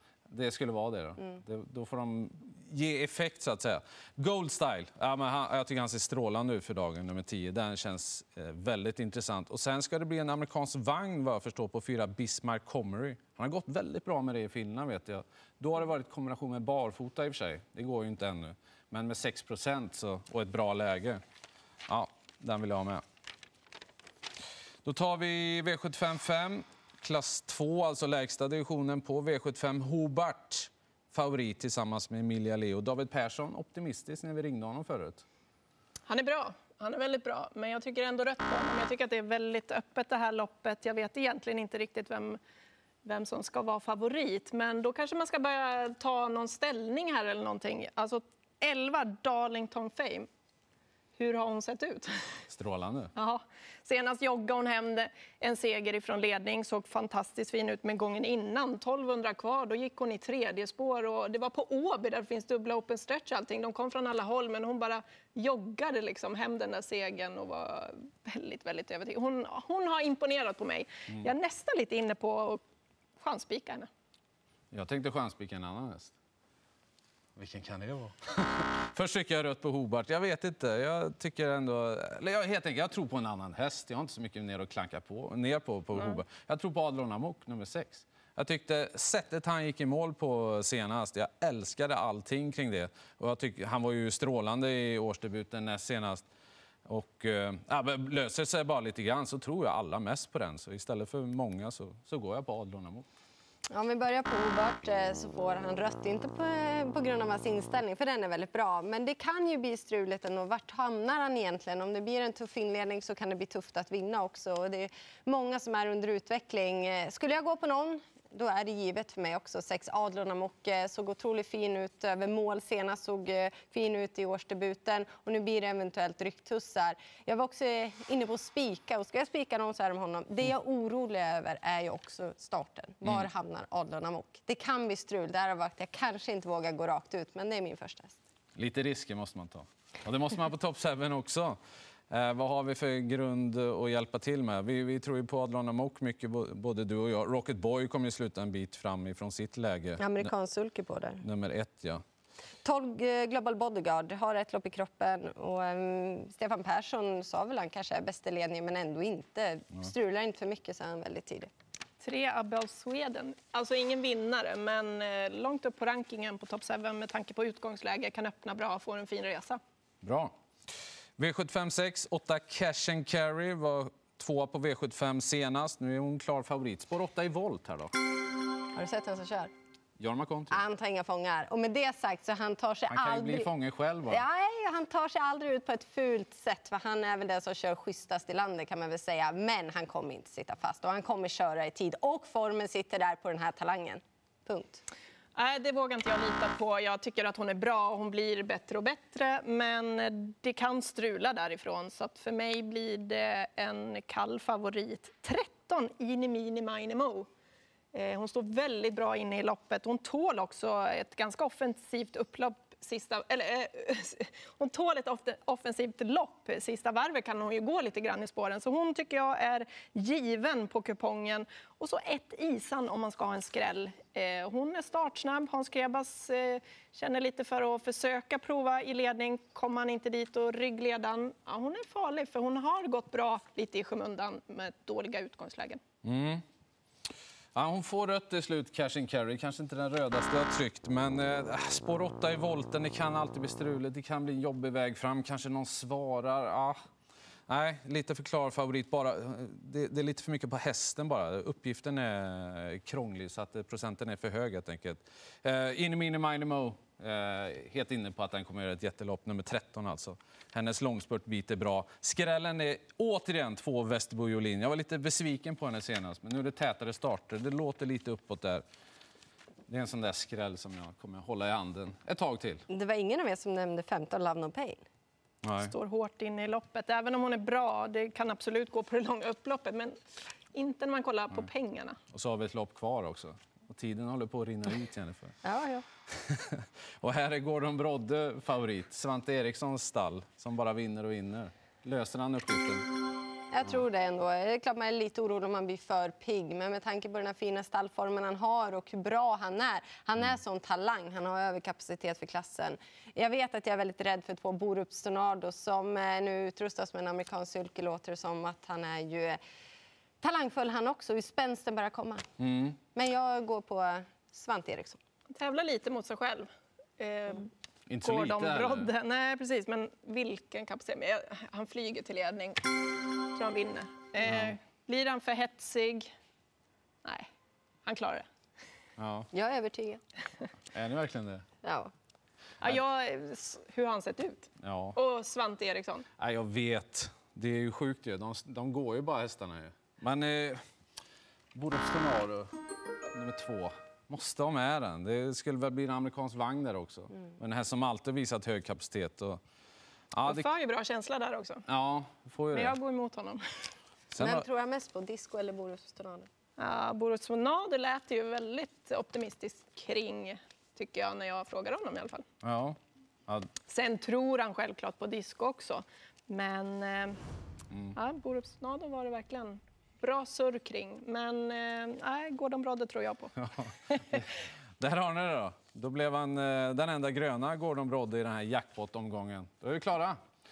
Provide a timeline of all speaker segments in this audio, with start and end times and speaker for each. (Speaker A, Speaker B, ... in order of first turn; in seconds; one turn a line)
Speaker A: 0.3-21.2
Speaker A: 21.9-23.0
Speaker A: 24.8-35.2
Speaker B: 36.1-42.4
Speaker B: 43.0-50.3
Speaker B: 51.2-52.1
Speaker A: 52.5-53.1
Speaker B: 53.1-72.6
Speaker B: 73.2-73.9
Speaker A: 74.7-76.1
Speaker A: 77.3-96.2
Speaker A: 96.8-103.1
Speaker C: 103.7-138.2
Speaker A: 138.5-141.6
Speaker A: 142.1-150.3
Speaker C: 150.0-151.2
Speaker A: 151.2-152.0
Speaker C: 152.6-161.5
Speaker B: 162.0-169.6
Speaker A: 170.0-170.3
Speaker A: 171.2-177.9
Speaker C: 178.7-179.5
Speaker A: 180.0-180.6
Speaker C: 180.5-183.5
Speaker A: 182.9-184.2
Speaker C: 184.1-194.8
Speaker B: 195.3-207.3
Speaker B: 207.9-235.8
Speaker A: 236.0-236.4
Speaker A: 237.5-246.8
Speaker A: 247.5-268.6
Speaker A: 269.7-272.6
Speaker C: 272.7-274.8
Speaker A: 275.4-275.7
Speaker B: 275.6-280.0
Speaker B: 280.5-282.0
Speaker A: 282.1-285.4
Speaker C: 285.4-285.8
Speaker A: 286.1-292.9
Speaker C: 293.5-309.4
Speaker C: 310.2-312.2
Speaker A: 312.4-312.8
Speaker C: 312.9-315.0
Speaker B: 315.3-316.5
Speaker B: 317.0-317.5
Speaker A: 317.9-318.9
Speaker B: 318.0-322.6
Speaker B: 323.3-326.1
Speaker A: 324.2-324.5
Speaker B: 327.8-328.2
Speaker A: 329.0-329.3
Speaker C: 329.3-330.0
Speaker A: 330.7-331.4
Speaker C: 331.6-331.9
Speaker B: 332.6-336.1
Speaker A: 334.6-335.0
Speaker A: 336.2-340.6
Speaker A: 341.5-342.5
Speaker A: 343.1-349.4
Speaker A: 350.1-350.5
Speaker B: 350.2-351.6
Speaker A: 351.7-352.7
Speaker B: 352.5-353.4
Speaker A: 354.1-354.4
Speaker C: 354.2-356.3
Speaker B: 356.6-362.2
Speaker A: 362.4-363.5
Speaker B: 363.7-367.2
Speaker B: 367.9-373.3
Speaker A: 373.4-374.2
Speaker B: 373.9-374.2
Speaker A: 374.8-380.2